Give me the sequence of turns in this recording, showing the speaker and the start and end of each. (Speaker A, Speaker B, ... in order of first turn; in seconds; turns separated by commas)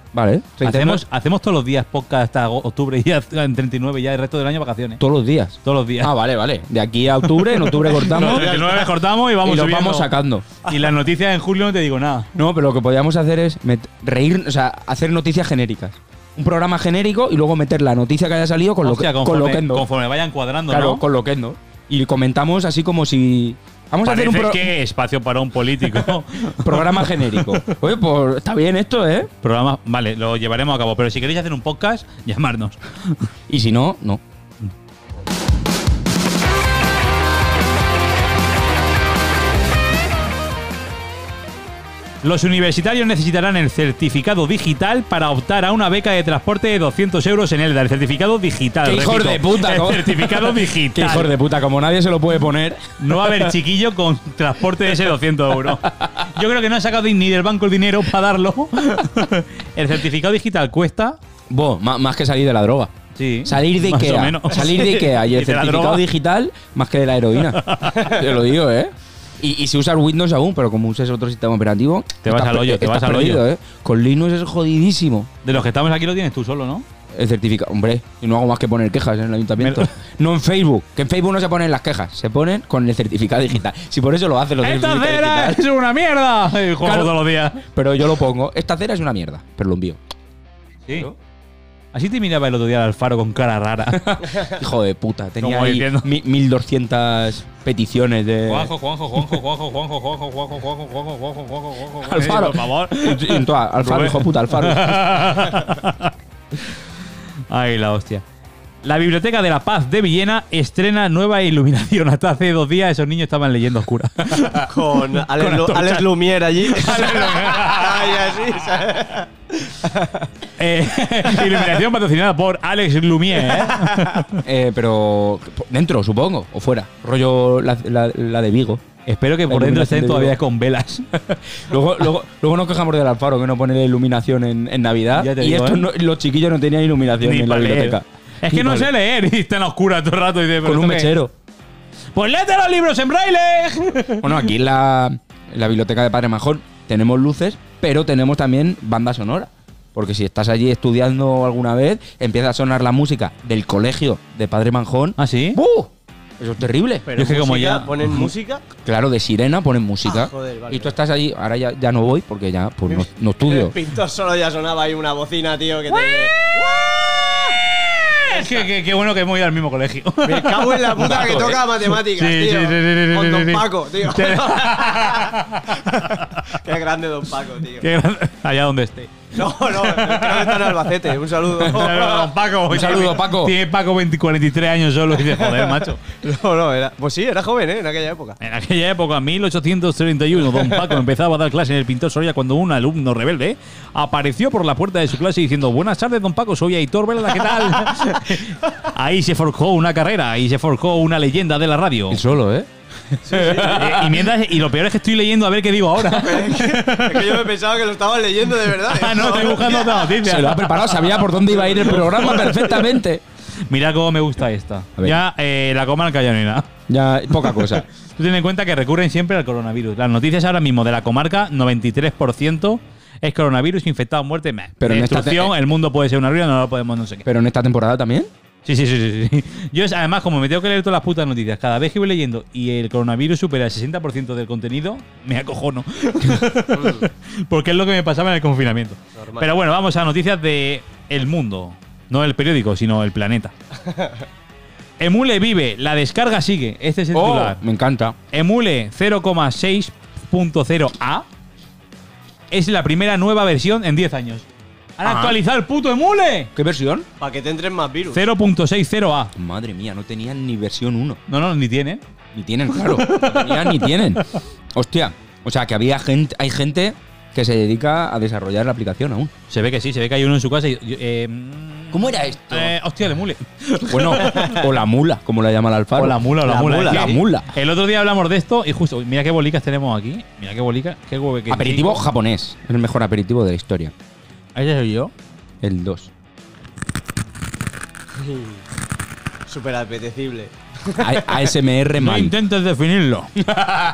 Speaker A: 0.1-1.0, Speaker B: 0.6-5.0, Speaker A: 5.0-8.6, Speaker B: 5.6-6.1, Speaker B: 7.2-10.1, Speaker C: 8.1-8.9, Speaker A: 9.4-10.5, Speaker B: 10.6-12.3, Speaker A: 12.3-19.9, Speaker B: 18.8-21.0, Speaker A: 20.7-24.7, Speaker B: 24.0-27.6, Speaker A: 26.5-29.3, Speaker B: 29.4-33.2, Speaker A: 33.5-34.2, Speaker B: 42.2-51.3, Speaker A: 48.8-53.5, Speaker B: 53.0-61.2, Speaker A: 61.5-62.9, Speaker B: 63.1-66.0, Speaker A: 63.4-75.3, Speaker B: 67.5-68.0, Speaker B: 72.2-73.4, Speaker B: 75.4-76.8, Speaker A: 77.1-85.6, Speaker B: 79.6-79.9, Speaker B: 84.6-87.6, Speaker A: 86.8-87.2, Speaker A: 87.7-90.0, Speaker B: 91.9-94.4, Speaker A: 93.9-99.4, Speaker B: 95.4-96.1, Speaker B: 98.5-106.1, Speaker A: 102.0-105.2, Speaker B: 107.5-108.2, Speaker B: 108.8-114.8, Speaker C: 114.7-120.3, Speaker B: 115.3-116.0, Speaker B: 116.6-118.3, Speaker B: 120.6-124.4, Speaker A: 124.4-128.8, Speaker B: 129.1-131.1, Speaker A: 129.5-130.4, Speaker A: 131.1-138.9, Speaker B: 135.1-135.8, Speaker B: 137.2-141.1, Speaker A: 140.6-141.3, Speaker B: 142.1-144.4, Speaker A: 144.2-157.1, Speaker B: 155.2-155.6, Speaker C: 157.1-158.6, Speaker B: 157.2-158.3, Speaker A: 158.8-163.7, Speaker C: 160.0-160.9, Speaker C: 162.9-167.6, Speaker B: 166.0-171.3, Speaker C: 168.2-168.7, Speaker C: 170.2-175.4, Speaker A: 171.0-171.6, Speaker B: 172.0-176.4, Speaker C: 176.5-177.9, Speaker B: 177.8-180.8, Speaker C: 179.3-182.3, Speaker B: 181.6-186.0, Speaker A: 182.7-183.6, Speaker C: 185.3-188.4, Speaker B: 188.4-202.2, Speaker A: 202.1-202.7, Speaker A: 203.2-204.3, Speaker C: 203.2-203.8, Speaker B: 203.7-207.5, Speaker C: 206.1-210.1, Speaker B: 208.8-211.4, Speaker A: 210.2-213.2, Speaker C: 211.7-212.4, Speaker B: 212.0-212.8, Speaker B: 213.7-216.7, Speaker A: 216.9-217.8, Speaker B: 217.4-227.2, Speaker A: 224.8-225.5, Speaker A: 227.2-228.3, Speaker B: 228.6-243.5, Speaker C: 236.7-237.1, Speaker C: 239.2-239.5, Speaker C: 243.8-244.2, Speaker B: 245.0-247.6, Speaker A: 247.1-248.2, Speaker B: 248.3-251.2, Speaker B: 252.5-254.4, Speaker B: 255.0-256.5, Speaker A: 255.0-255.4, Speaker A: 256.5-257.1, Speaker C: 257.2-258.2, Speaker B: 258.1-259.3, Speaker A: 259.3-261.2, Speaker B: 261.3-262.0, Speaker A: 262.3-269.3, Speaker B: 262.8-264.0, Speaker B: 269.5-274.6, Speaker A: 271.9-272.7, Speaker A: 273.9-276.2, Speaker B: 275.9-282.0, Speaker C: 276.4-277.2, Speaker A: 276.8-277.5, Speaker A: 281.5-283.9, Speaker B: 284.5-285.1, Speaker A: 285.6-286.1, Speaker C: 288.2-288.6, Speaker C: 289.5-291.4, Speaker A: 291.0-292.3, Speaker B: 292.0-293.4, Speaker A: 293.5-293.8